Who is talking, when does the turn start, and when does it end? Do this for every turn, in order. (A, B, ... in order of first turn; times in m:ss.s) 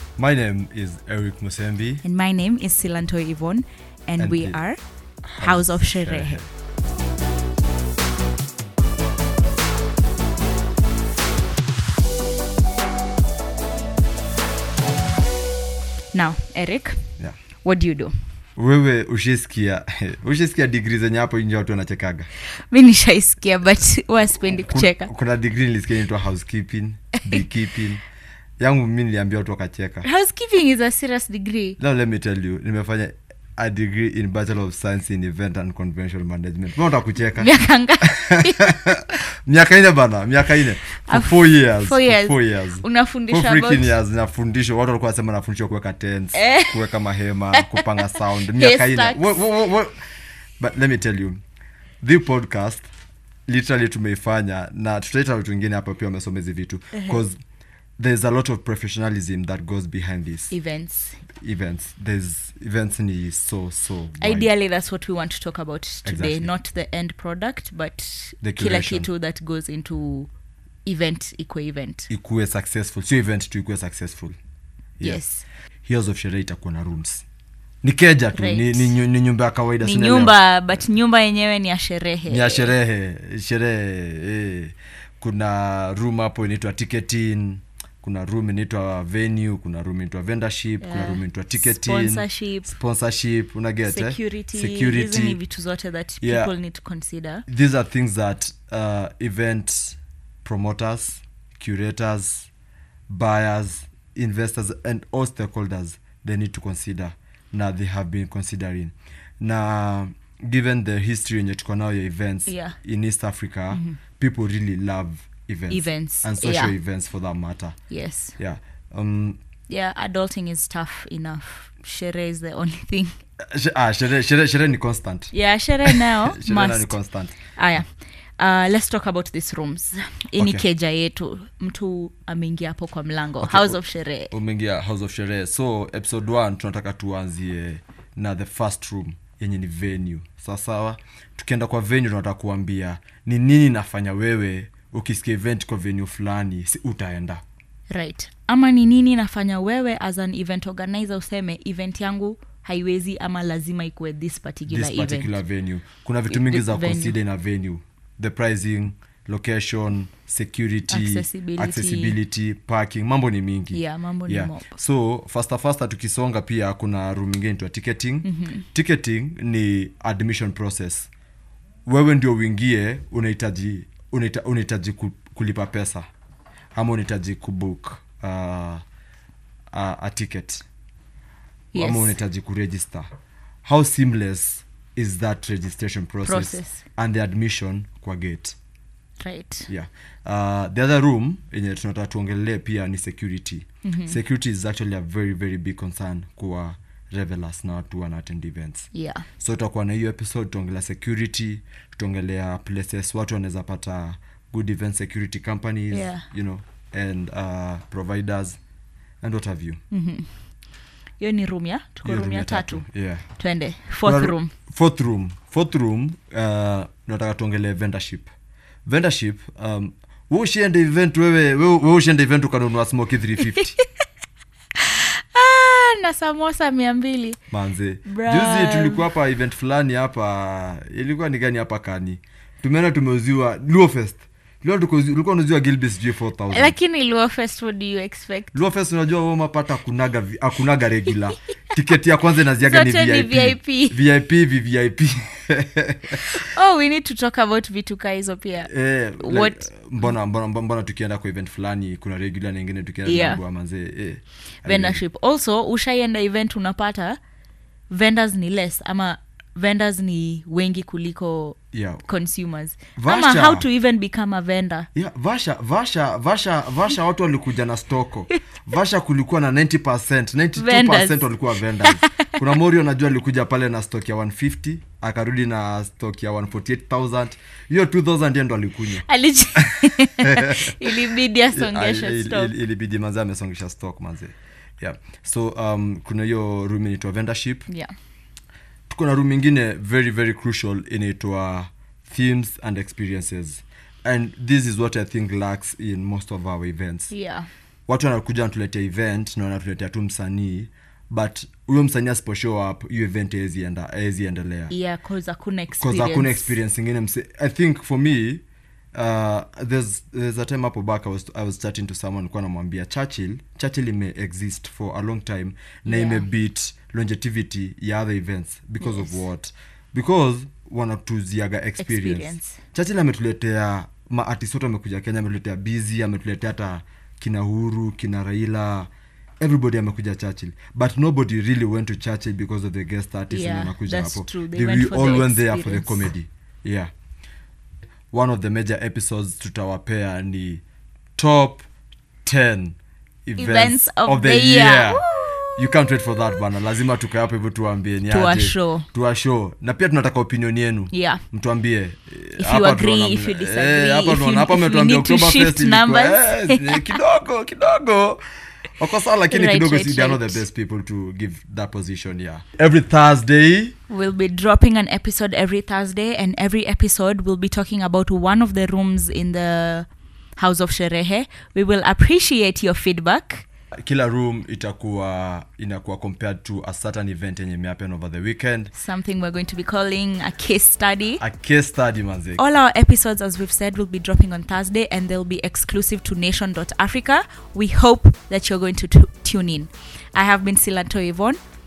0:00.2-0:02.0 A
0:02.0-0:04.8 B
0:04.2-0:04.6 A
0:05.2-0:06.5 A
0:05.4-0:06.4 B
0:16.1-0:17.1 B
0:17.6-0:18.1 B
0:18.6-0:22.3 A
0:22.6-0:25.1 B
0:24.5-0:28.0 A
0:28.6-0:30.1 A
0:30.0-0:31.8 B
0:31.8-0:37.5 A
0:37.4-0:38.7 B
0:38.0-0:50.0 A
0:41.0-0:43.9 B
0:46.3-0:46.8 B
0:48.5-0:49.4 B
0:50.6-0:51.4 A
0:52.0-0:52.9 A
0:53.5-0:57.4 A
0:58.0-1:00.6 A
1:00.5-1:01.2 B
1:01.4-1:04.5 A
1:04.2-1:10.3 B
1:06.0-1:06.5 A
1:08.4-1:09.1 A
1:10.8-1:12.1 B
1:12.1-1:14.4 A
1:15.0-1:15.4 B
1:15.8-1:17.2 A
1:17.8-1:20.4 A
1:18.3-1:19.0 B
1:19.8-1:22.7 B
1:22.3-1:35.4 A
1:30.8-1:32.8 B
1:33.8-1:37.4 B
1:36.2-1:36.5 A
1:37.5-1:42.5 A
1:43.1-1:57.8 A
1:52.5-1:52.8 B
1:53.7-1:54.0 B
1:55.7-1:56.7 B
1:57.9-1:58.4 B
1:58.4-1:59.4 A
1:59.7-2:03.2 B
2:03.5-2:05.3 A
2:05.3-2:07.0 B
2:05.8-2:07.4 A
2:07.5-2:14.3 B
2:10.4-2:10.6 A
2:13.4-2:13.8 A
2:14.3-2:27.4 A
2:27.9-2:35.4 B
2:34.7-2:51.1 A
2:36.3-2:37.2 B
2:40.9-2:42.2 B
2:43.7-2:44.7 B
2:48.2-2:48.6 B
2:51.9-2:56.1 A
2:56.7-2:58.8 A
2:59.7-3:00.6 A
3:01.7-3:02.2 B
3:01.7-3:03.1 A
3:03.6-3:08.6 A
3:06.2-3:06.8 B
3:09.2-3:09.7 B
3:09.7-3:28.6 A
3:13.8-3:14.2 B
3:18.9-3:19.3 B
3:25.9-3:26.2 B
3:29.2-3:29.8 A
3:29.9-3:30.3 B
3:31.2-3:34.5 B
3:32.0-3:33.2 A
3:34.0-3:38.3 A
3:38.9-3:43.8 A
3:44.8-3:47.4 B
3:47.5-3:56.8 A
3:48.1-3:49.1 B
3:56.5-3:58.6 B
3:58.5-4:06.3 A
4:02.6-4:04.0 B
4:06.3-4:09.7 B
4:08.6-4:15.0 A
4:13.0-4:13.4 B
4:14.6-4:17.2 B
4:17.9-4:24.9 B
4:21.7-4:22.1 A
4:23.0-4:23.7 A
4:25.0-4:40.8 A
4:30.6-4:32.4 B
4:39.0-4:42.5 B
4:41.5-4:47.7 A
4:48.9-4:57.1 A
4:57.1-4:57.5 B
4:57.9-5:04.7 A
5:04.7-5:06.6 B
5:05.8-5:08.4 A
5:08.9-5:36.9 A
5:15.9-5:16.3 B
5:18.8-5:19.2 B
5:21.8-5:22.6 B
5:33.3-5:36.1 B
5:38.1-5:40.6 A
5:41.2-5:41.7 A
5:42.2-5:58.2 A
5:43.4-5:45.6 B
5:48.1-5:48.9 B
5:50.9-5:51.2 B
5:52.4-5:56.8 B
5:58.8-6:03.8 A
5:59.3-6:00.4 B
6:03.9-6:13.5 B
6:13.7-6:18.7 A
6:18.7-6:21.2 B
6:21.2-6:22.4 A
6:22.4-6:31.4 B